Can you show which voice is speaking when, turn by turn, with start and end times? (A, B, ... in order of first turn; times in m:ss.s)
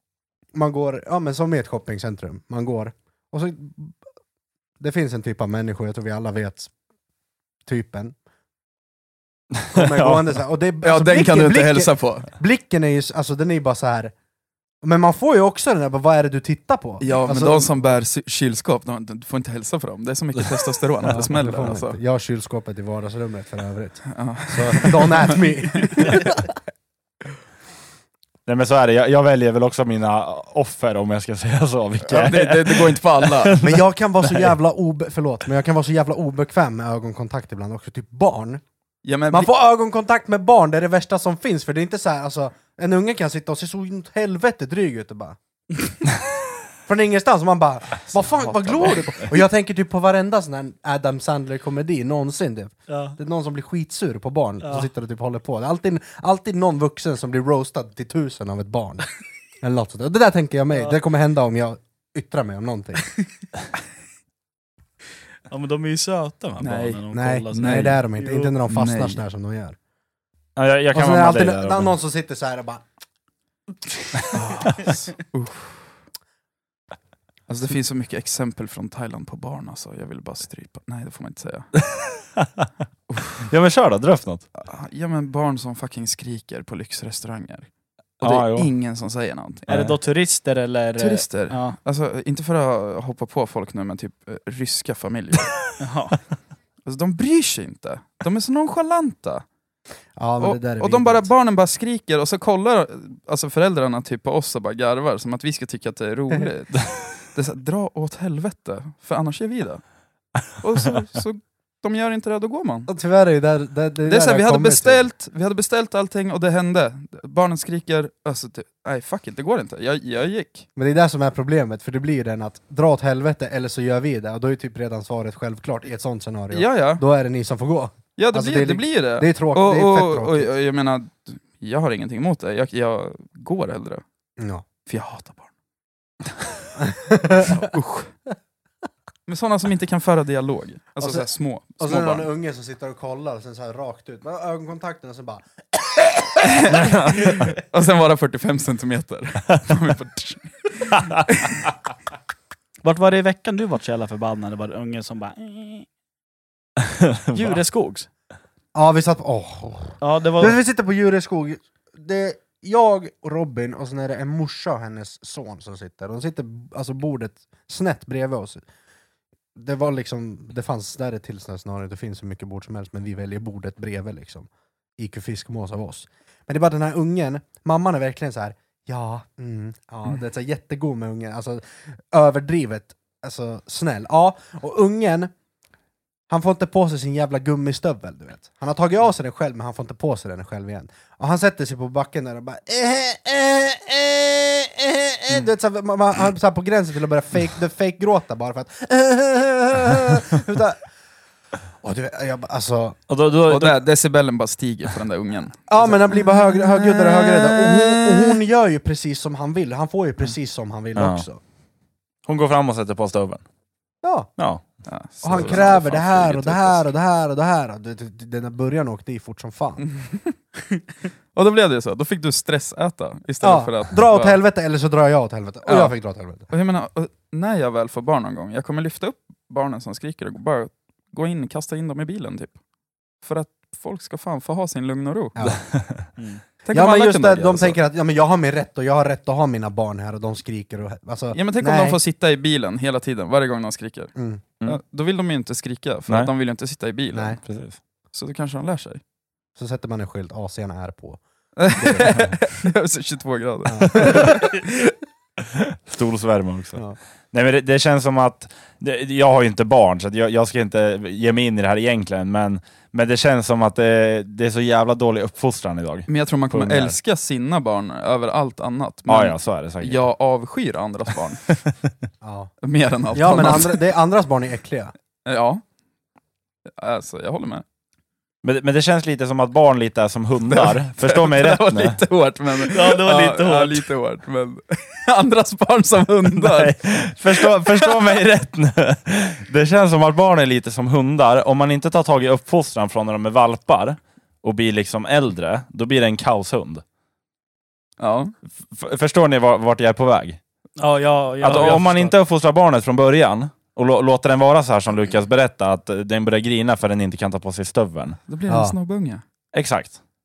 0:00.5-0:04.0 A
0:04.8-0:06.7 A
0:07.6-0:08.1 A
0:09.6-0:10.2 B
0:09.7-0:14.1 A
0:10.8-0:12.3 C
0:14.8-0:17.7 A
0:17.0-0:22.0 C
0:21.1-0:26.5 A
0:24.1-0:26.2 C
0:28.4-0:34.5 B
0:32.0-0:33.6 C
0:33.6-0:38.6 A
0:39.0-0:39.5 C
0:39.3-0:45.4 A
0:46.9-0:59.0 A
0:48.1-0:49.3 C
0:52.9-0:53.2 D
0:59.6-1:03.1 A
1:05.5-1:08.5 D
1:06.6-1:07.0 C
1:07.1-1:09.8 A
1:07.5-1:08.0 C
1:08.7-1:09.2 C
1:10.6-1:11.9 B
1:10.9-1:12.8 A
1:14.3-1:15.9 C
1:17.5-1:21.7 C
1:22.4-1:22.6 B
1:23.1-1:23.4 C
1:23.4-1:24.4 B
1:24.6-1:27.7 C
1:28.2-1:28.7 B
1:28.2-1:29.7 C
1:29.7-1:31.8 D
1:29.7-1:30.0 B
1:31.0-1:35.7 C
1:35.8-1:36.2 D
1:36.8-1:39.4 C
1:40.2-1:41.3 A
1:40.4-1:49.8 C
1:50.5-1:52.9 C
1:52.9-1:55.1 A
1:54.0-2:00.7 C
2:00.8-2:10.5 A
2:06.5-2:07.0 C
2:08.2-2:14.0 C
2:14.4-2:14.6 A
2:14.8-2:15.5 C
2:16.8-2:17.6 A
2:17.4-2:18.1 C
2:19.3-2:22.3 C
2:21.0-2:21.3 A
2:21.8-2:26.7 A
2:26.4-2:31.2 C
2:26.7-2:27.5 B
2:32.8-2:35.9 D
2:37.0-2:37.6 B
2:37.3-2:38.1 D
2:38.7-2:48.6 A
2:40.0-2:40.6 D
2:49.6-3:05.3 A
3:06.3-3:20.8 A
3:21.8-3:23.0 A
3:23.1-3:23.8 B
3:23.5-3:28.4 C
3:25.7-3:31.4 A
3:31.0-3:31.2 B
3:32.2-3:33.4 B
3:34.0-3:34.3 A
3:34.4-3:34.6 B
3:34.8-3:36.8 C
3:35.2-3:39.8 A
3:40.0-3:40.3 C
3:41.3-3:44.4 C
3:43.4-3:46.4 A
3:45.6-3:45.9 C
3:46.5-3:52.6 C
3:53.2-3:55.4 C
3:55.4-3:56.1 B
3:56.6-3:57.8 C
3:56.7-4:02.0 A
4:01.3-4:07.4 C
4:04.2-4:04.4 A
4:07.1-4:07.4 A
4:07.4-4:07.8 B
4:08.1-4:09.0 C
4:09.6-4:11.2 A
4:11.6-4:14.8 C
4:11.7-4:12.3 A
4:13.6-4:14.4 A
4:13.9-4:14.4 B
4:15.6-4:27.0 B
4:26.1-4:31.5 C
4:29.1-4:30.0 B
4:32.2-4:32.5 A
4:32.6-4:33.8 C
4:33.1-4:34.9 A
4:35.2-4:35.6 C
4:36.8-4:37.6 C
4:38.4-4:42.0 B
4:40.4-4:46.8 C
4:42.6-4:43.8 D
4:46.4-4:56.8 B
4:47.3-4:48.0 C
4:58.0-4:58.3 C
4:58.6-5:00.4 B
5:00.8-5:02.1 D
5:01.4-5:08.2 B
5:08.3-5:09.2 C
5:08.5-5:08.8 A
5:09.5-5:10.0 B